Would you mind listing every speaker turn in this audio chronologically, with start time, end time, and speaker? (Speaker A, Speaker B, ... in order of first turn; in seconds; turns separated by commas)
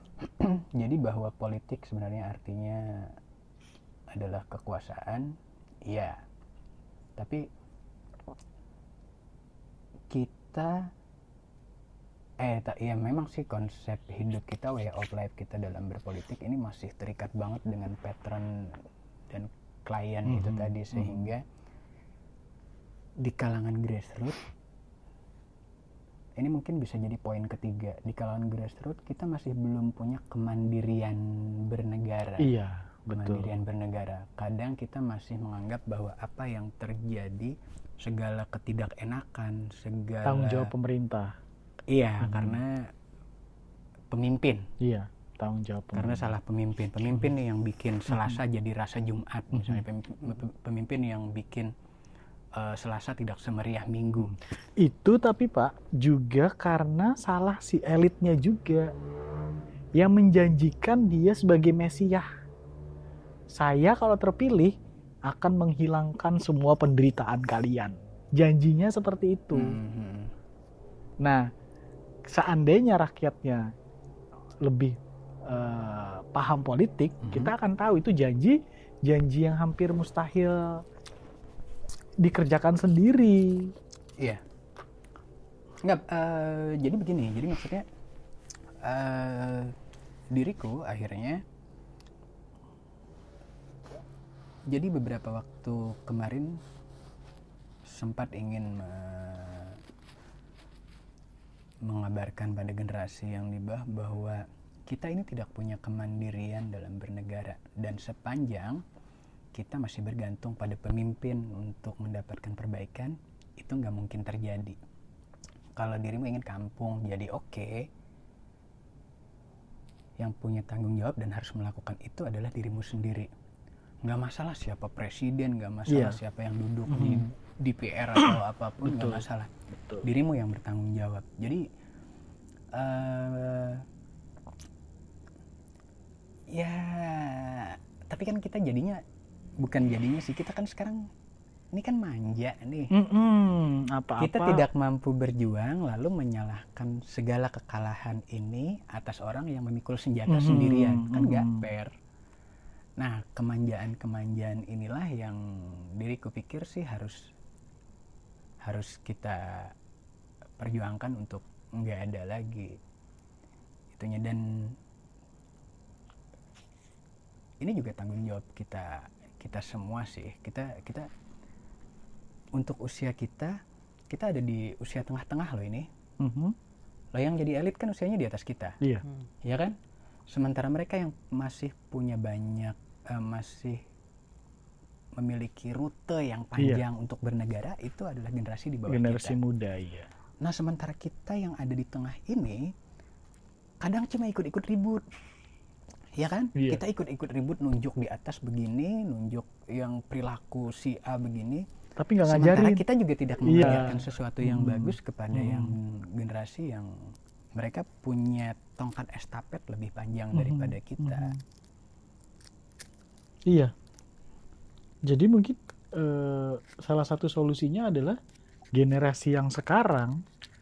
Speaker A: 0.2-3.1, Speaker A: 4.1-5.3, Speaker A: 5.9-6.2, Speaker A: 7.2-7.4, Speaker A: 10.1-10.9, Speaker A: 12.4-18.5, Speaker A: 19.3-21.4, Speaker B: 20.2-21.3, Speaker A: 23.2-24.4, Speaker A: 26.4-32.5, Speaker B: 32.4-33.5, Speaker A: 33.1-40.7, Speaker B: 40.2-41.3, Speaker A: 41.9-42.9, Speaker B: 42.2-42.6, Speaker A: 44.1-44.6, Speaker B: 44.8-46.3, Speaker A: 45.9-51.7, Speaker B: 48.1-48.4, Speaker B: 49.5-49.8, Speaker A: 52.5-54.3, Speaker B: 54.2-58.9, Speaker B: 60.0-62.3, Speaker B: 63.5-64.7, Speaker B: 65.3-69.8, Speaker A: 69.5-70.3, Speaker B: 72.3-73.7, Speaker B: 74.6-80.8, Speaker A: 77.2-77.5, Speaker B: 82.2-83.7, Speaker A: 85.8-87.8, Speaker A: 88.8-89.7, Speaker A: 90.3-91.4, Speaker A: 94.7-96.6, Speaker A: 97.8-99.8, Speaker A: 101.8-108.8, Speaker A: 109.5-114.8, Speaker A: 115.8-117.8, Speaker A: 120.2-123.3, Speaker A: 124.0-129.5, Speaker B: 125.9-126.2, Speaker B: 126.9-127.2, Speaker B: 128.2-129.2, Speaker B: 129.8-130.1, Speaker A: 130.0-131.6, Speaker A: 132.7-133.8, Speaker A: 136.5-139.0, Speaker A: 139.6-141.1, Speaker A: 141.7-142.9, Speaker B: 142.9-144.7, Speaker A: 144.2-151.9, Speaker B: 150.3-151.6, Speaker A: 153.0-155.4, Speaker A: 156.0-157.2, Speaker A: 158.6-159.7, Speaker A: 160.6-162.8, Speaker A: 163.9-164.8, Speaker A: 167.6-171.1, Speaker A: 172.5-173.6, Speaker A: 174.1-175.9, Speaker B: 176.2-176.6, Speaker A: 177.1-178.8, Speaker A: 179.4-179.8, Speaker A: 180.3-183.8, Speaker A: 185.2-189.3, Speaker B: 186.6-186.8, Speaker B: 188.9-190.1, Speaker A: 190.4-192.7, Speaker A: 193.8-195.0, Speaker A: 196.2-201.7, Speaker B: 196.5-196.8, Speaker B: 202.0-202.8, Speaker A: 202.2-211.3, Speaker B: 203.4-205.7, Speaker B: 210.3-211.4, Speaker B: 215.1-218.2, Speaker B: 218.7-220.2